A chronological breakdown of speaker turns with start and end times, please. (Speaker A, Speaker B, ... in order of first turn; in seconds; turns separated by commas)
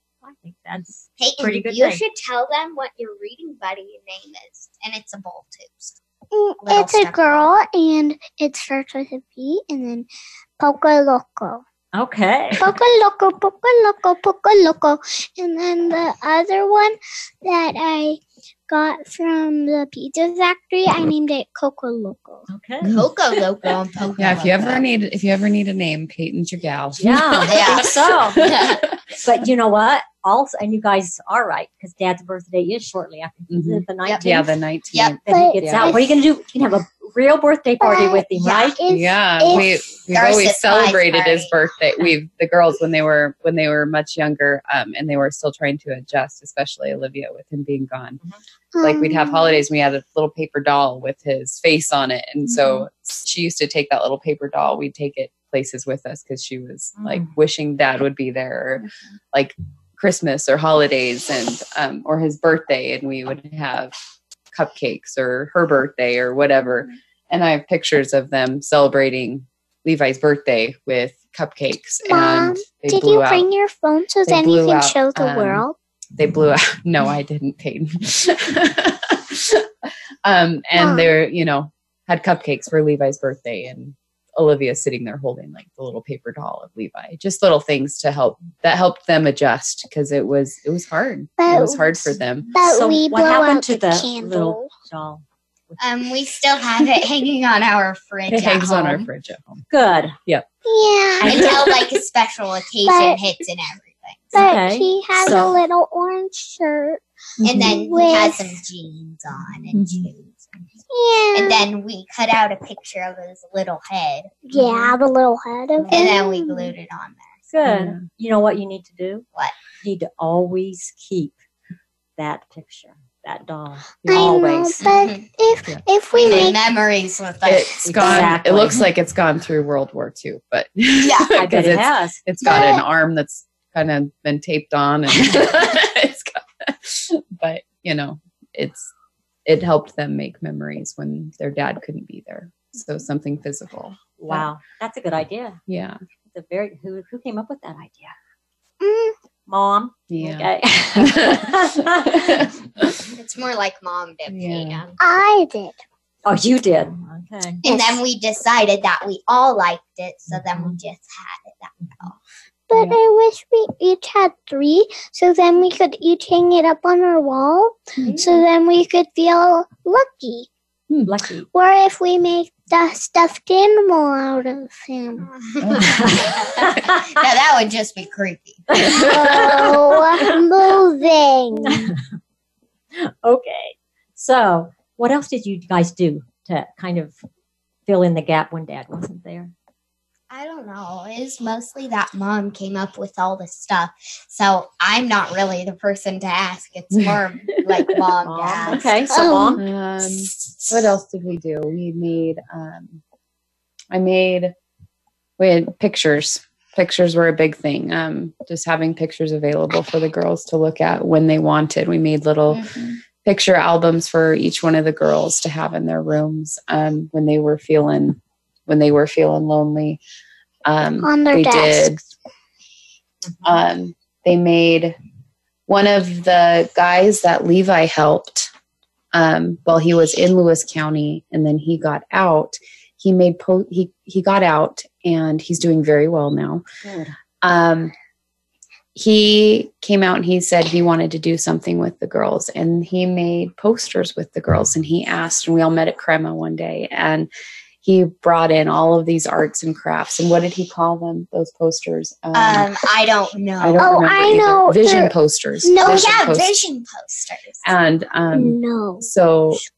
Speaker A: 0.2-2.0, Speaker B: 1.2-6.0, Speaker C: 6.3-10.1, Speaker B: 6.6-7.5, Speaker C: 10.6-11.6, Speaker A: 11.9-12.6, Speaker C: 12.6-22.5, Speaker A: 22.5-23.0, Speaker D: 22.8-23.1, Speaker B: 22.9-24.9, Speaker D: 24.2-27.7, Speaker A: 27.0-28.5, Speaker B: 27.4-28.8, Speaker D: 28.4-28.8, Speaker A: 29.2-34.5, Speaker D: 33.5-35.9, Speaker B: 34.0-34.3, Speaker B: 34.9-35.2, Speaker C: 35.3-36.1, Speaker A: 35.3-38.8, Speaker C: 37.8-39.8, Speaker B: 38.4-38.8, Speaker D: 38.9-48.2, Speaker B: 40.1-41.6, Speaker C: 48.7-49.6, Speaker D: 48.8-63.9, Speaker A: 57.0-57.3, Speaker D: 64.5-73.5, Speaker C: 72.1-75.8, Speaker D: 74.3-75.6, Speaker D: 76.2-79.7, Speaker D: 80.2-92.5, Speaker C: 80.8-81.1, Speaker C: 91.4-94.7, Speaker A: 92.5-95.8, Speaker B: 95.8-99.1, Speaker D: 98.3-99.7, Speaker A: 99.7-100.2, Speaker C: 100.6-101.4, Speaker B: 101.2-104.4, Speaker D: 101.3-101.7, Speaker C: 102.8-103.2, Speaker A: 104.3-105.6, Speaker C: 104.4-107.0, Speaker D: 107.4-107.8, Speaker B: 107.4-110.6, Speaker C: 107.6-108.6, Speaker D: 109.7-110.1, Speaker C: 110.9-111.7, Speaker B: 111.3-114.9, Speaker C: 114.5-116.7, Speaker B: 115.8-117.5, Speaker A: 117.5-119.2, Speaker D: 117.6-118.0, Speaker A: 119.8-121.3, Speaker A: 122.2-124.7, Speaker D: 124.0-124.8, Speaker C: 124.1-126.6, Speaker B: 124.8-125.3, Speaker B: 126.1-128.3, Speaker D: 127.5-138.9, Speaker A: 127.8-128.8, Speaker B: 131.0-131.3, Speaker A: 131.3-132.2, Speaker B: 132.4-132.8, Speaker C: 132.5-132.8, Speaker D: 139.4-144.5, Speaker A: 144.2-145.6, Speaker D: 145.7-146.0, Speaker A: 146.3-148.1, Speaker C: 148.8-149.1, Speaker A: 149.5-152.4, Speaker D: 150.1-152.4, Speaker B: 153.1-154.9, Speaker D: 154.3-154.8, Speaker C: 155.0-155.8, Speaker A: 156.3-157.6, Speaker C: 157.6-158.0, Speaker B: 157.6-162.2, Speaker C: 162.7-170.5, Speaker B: 168.1-168.4, Speaker A: 171.1-171.4, Speaker C: 171.5-175.3, Speaker B: 175.3-178.9, Speaker D: 175.6-176.1, Speaker A: 175.8-177.0, Speaker A: 178.8-179.7, Speaker C: 178.8-181.9, Speaker A: 181.5-182.0, Speaker A: 182.9-187.2, Speaker A: 187.9-189.5, Speaker B: 190.3-199.2, Speaker A: 198.2-199.6, Speaker C: 199.1-199.6, Speaker D: 199.6-203.0, Speaker D: 203.9-204.5, Speaker D: 205.4-220.0, Speaker B: 212.5-212.9, Speaker D: 220.6-222.0, Speaker C: 221.0-222.0, Speaker D: 223.4-224.9, Speaker D: 225.7-228.5, Speaker D: 229.1-236.6, Speaker A: 236.8-237.1, Speaker D: 237.4-237.9, Speaker D: 238.9-247.3, Speaker D: 247.8-252.7, Speaker B: 252.3-254.4, Speaker D: 253.6-256.5, Speaker C: 253.8-256.2, Speaker B: 255.7-257.7, Speaker D: 257.6-259.6, Speaker C: 258.3-259.1